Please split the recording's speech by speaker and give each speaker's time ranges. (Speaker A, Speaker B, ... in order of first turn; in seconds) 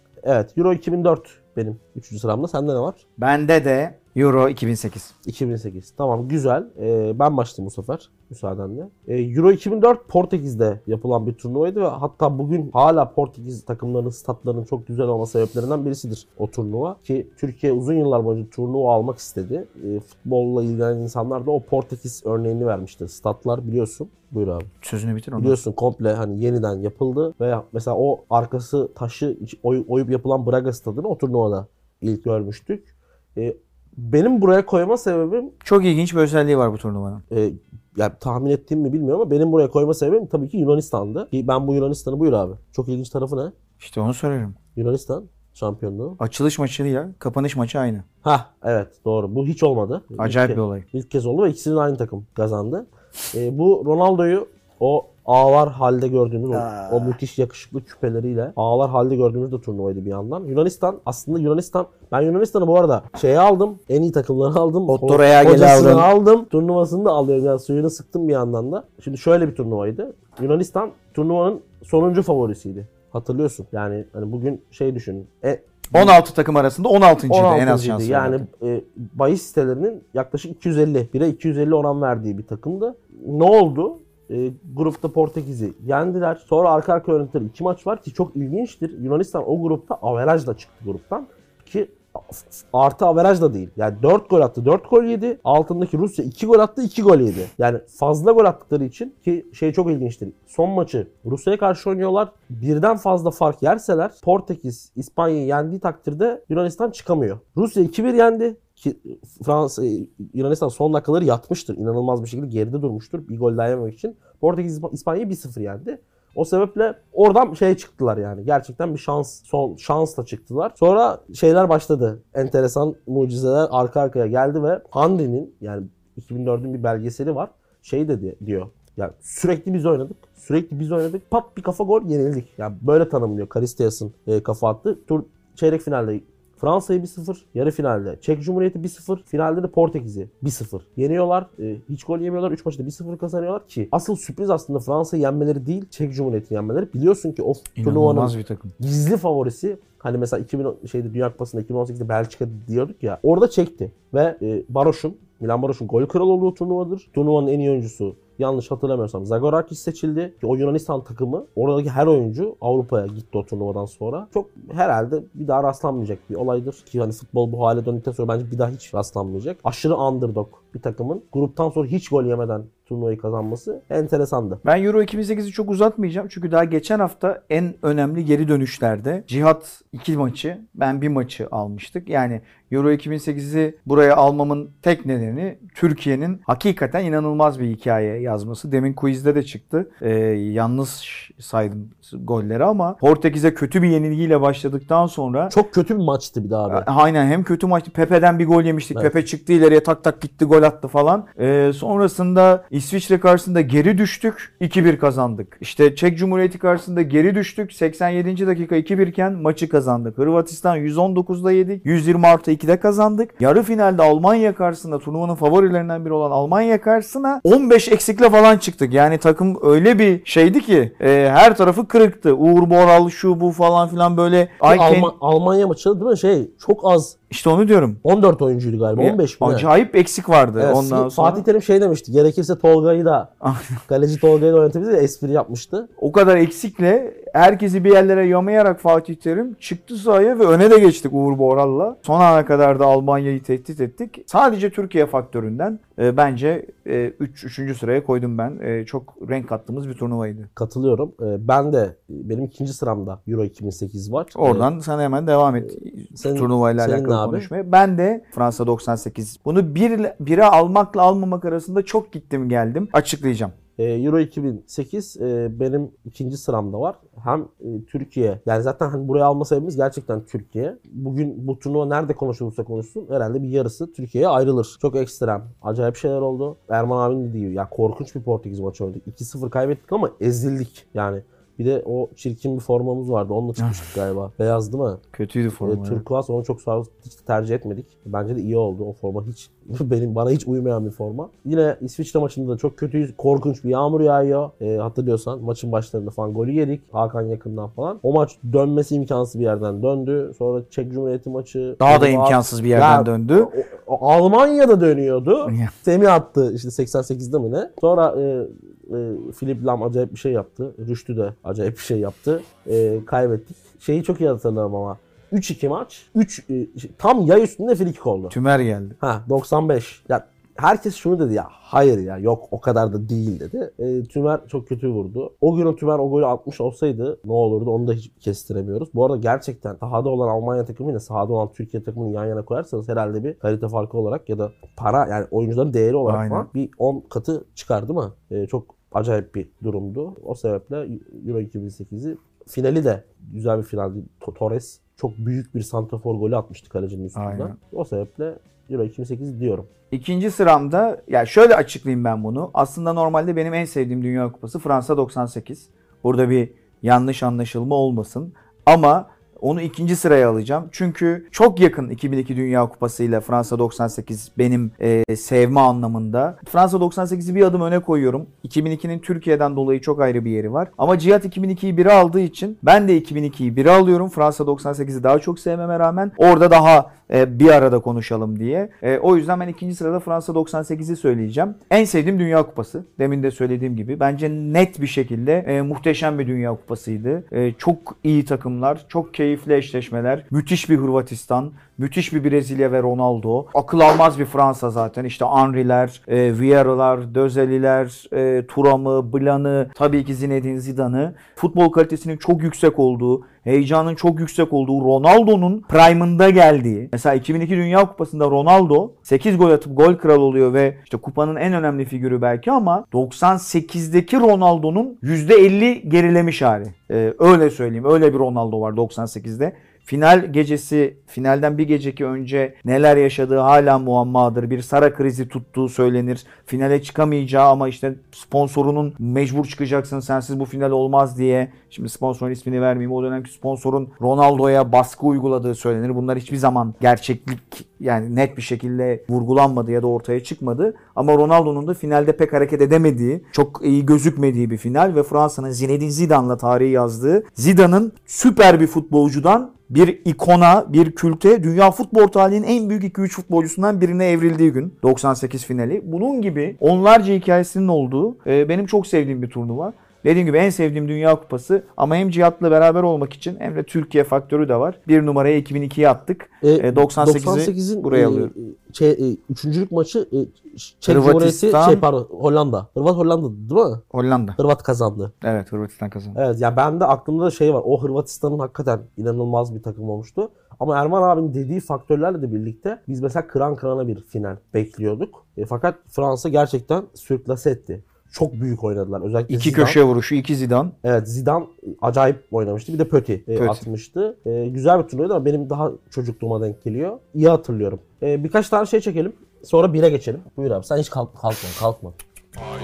Speaker A: 0.2-3.0, 5.2-24.7, 25.4-35.5, 37.3-43.5, 44.7-46.2, 48.2-76.2, 77.3-174.6, 195.5-196.9, 224.7-227.2, 228.0-229.7, 230.6-233.3, 233.9-235.9, 250.6-254.7, 256.1-257.5, 263.8-285.0, 285.6-318.4, 319.0-349.7, 466.4-473.8, 474.4-475.1, 476.1-489.8, 490.8-502.0
Speaker B: 3.2-5.1, 24.8-25.6, 35.6-37.2, 43.8-44.6, 46.2-48.0, 50.2-50.9, 56.5-57.2, 64.9-66.1, 75.9-78.5, 147.8-148.7, 174.6-195.5, 196.7-225.1, 227.3-228.0, 229.0-231.4, 233.4-233.8, 236.0-250.5, 254.3-263.5, 283.6-283.9, 285.1-286.0, 301.8-303.5, 305.4-305.7, 318.3-319.0, 336.1-336.5, 347.1-347.6, 349.9-468.3, 470.9-471.8, 473.9-474.4, 475.2-476.2, 489.3-490.8, 493.4-493.6